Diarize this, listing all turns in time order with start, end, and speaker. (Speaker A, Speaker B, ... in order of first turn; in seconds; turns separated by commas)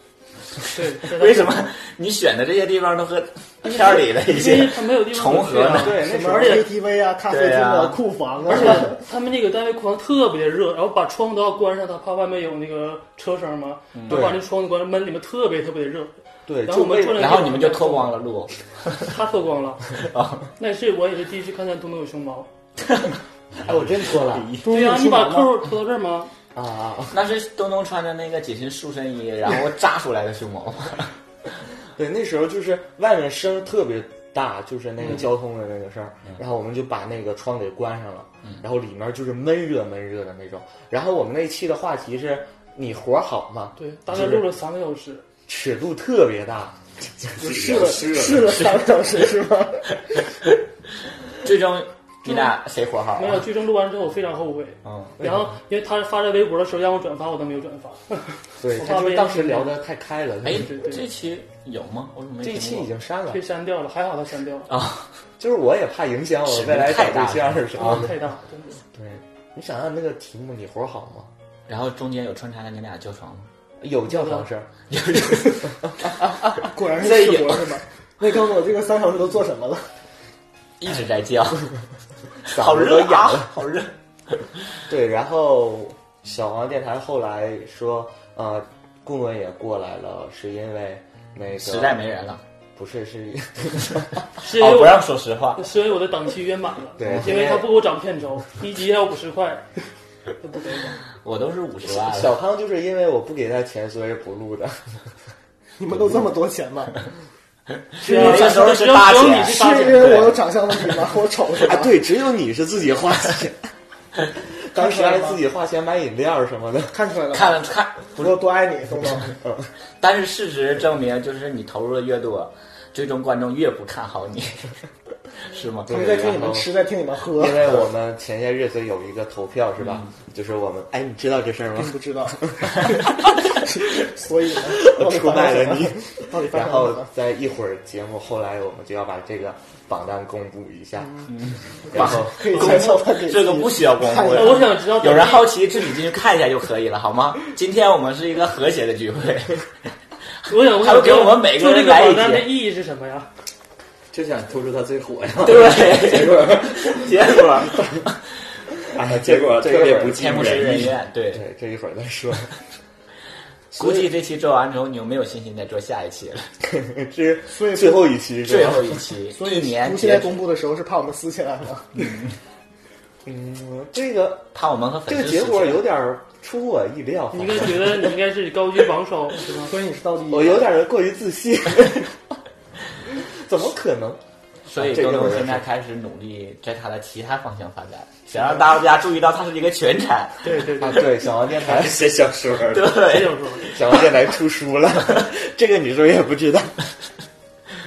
Speaker A: 0.7-1.7, Speaker B: 1.0-5.9, Speaker A: 4.3-6.7, Speaker C: 5.7-6.6, Speaker D: 6.0-9.0, Speaker B: 7.3-8.0, Speaker A: 8.4-16.1, Speaker B: 13.9-14.3, Speaker C: 14.1-14.4, Speaker C: 16.5-17.4, Speaker A: 16.6-18.2, Speaker B: 17.2-19.1, Speaker A: 19.0-19.9, Speaker B: 20.0-20.5, Speaker A: 20.6-22.5, Speaker C: 23.6-24.5, Speaker B: 24.3-25.4, Speaker A: 24.6-26.3, Speaker C: 26.5-27.1, Speaker B: 27.1-31.1, Speaker C: 31.9-44.5, Speaker A: 43.8-45.2, Speaker C: 45.5-47.3, Speaker D: 47.4-49.9, Speaker E: 47.4-48.8, Speaker B: 51.4-53.5, Speaker A: 52.2-52.5, Speaker A: 53.1-59.7, Speaker B: 54.8-55.1, Speaker C: 55.2-55.5, Speaker C: 58.6-60.8, Speaker B: 60.4-62.9, Speaker A: 60.6-61.0, Speaker C: 62.4-63.4, Speaker A: 63.3-64.7, Speaker B: 64.7-65.1, Speaker C: 65.4-68.1, Speaker B: 66.4-68.0, Speaker A: 67.7-68.8, Speaker C: 68.9-71.3, Speaker B: 71.7-73.5, Speaker C: 73.8-74.7, Speaker A: 74.1-74.5, Speaker B: 74.9-75.7, Speaker D: 76.5-79.9, Speaker B: 77.0-77.4, Speaker B: 80.8-81.7, Speaker B: 82.5-84.4, Speaker C: 82.5-83.5, Speaker C: 84.9-92.0, Speaker B: 91.5-92.4, Speaker C: 92.8-94.2, Speaker A: 94.4-99.7, Speaker B: 94.4-95.7, Speaker C: 97.0-97.7, Speaker A: 100.4-101.0, Speaker B: 101.2-102.3, Speaker C: 101.9-105.0, Speaker D: 105.8-107.0, Speaker B: 108.0-110.4, Speaker A: 108.0-110.4, Speaker D: 108.1-108.6, Speaker D: 109.4-112.0, Speaker C: 111.6-113.7, Speaker C: 114.7-116.9, Speaker D: 114.7-115.4, Speaker D: 116.9-117.6, Speaker B: 117.3-118.4, Speaker D: 118.1-119.3, Speaker C: 119.4-119.7, Speaker B: 120.0-124.7, Speaker B: 125.5-126.4, Speaker C: 125.9-126.7, Speaker D: 125.9-127.8, Speaker C: 127.3-132.6, Speaker B: 129.8-130.1, Speaker D: 131.8-137.1, Speaker C: 134.7-141.2, Speaker B: 141.3-149.6, Speaker C: 141.9-142.8, Speaker D: 141.9-144.7, Speaker A: 144.3-145.6, Speaker A: 150.5-153.3, Speaker B: 150.5-152.5, Speaker E: 154.1-157.1, Speaker B: 155.4-158.2, Speaker C: 158.9-162.5, Speaker E: 158.9-161.0, Speaker B: 160.1-161.4, Speaker C: 163.7-164.1, Speaker B: 163.8-166.5, Speaker C: 166.7-169.0, Speaker D: 167.5-168.1, Speaker B: 168.4-170.4, Speaker D: 169.3-172.0, Speaker C: 173.2-174.5, Speaker B: 174.5-175.8, Speaker C: 175.1-178.2, Speaker A: 177.3-179.8, Speaker D: 179.7-180.7, Speaker C: 180.3-182.2, Speaker C: 183.2-184.2, Speaker B: 184.7-190.5, Speaker C: 184.7-185.7, Speaker A: 190.4-191.1, Speaker C: 190.8-192.3, Speaker E: 191.5-193.0, Speaker B: 192.7-194.0, Speaker A: 193.0-193.7, Speaker C: 193.7-196.7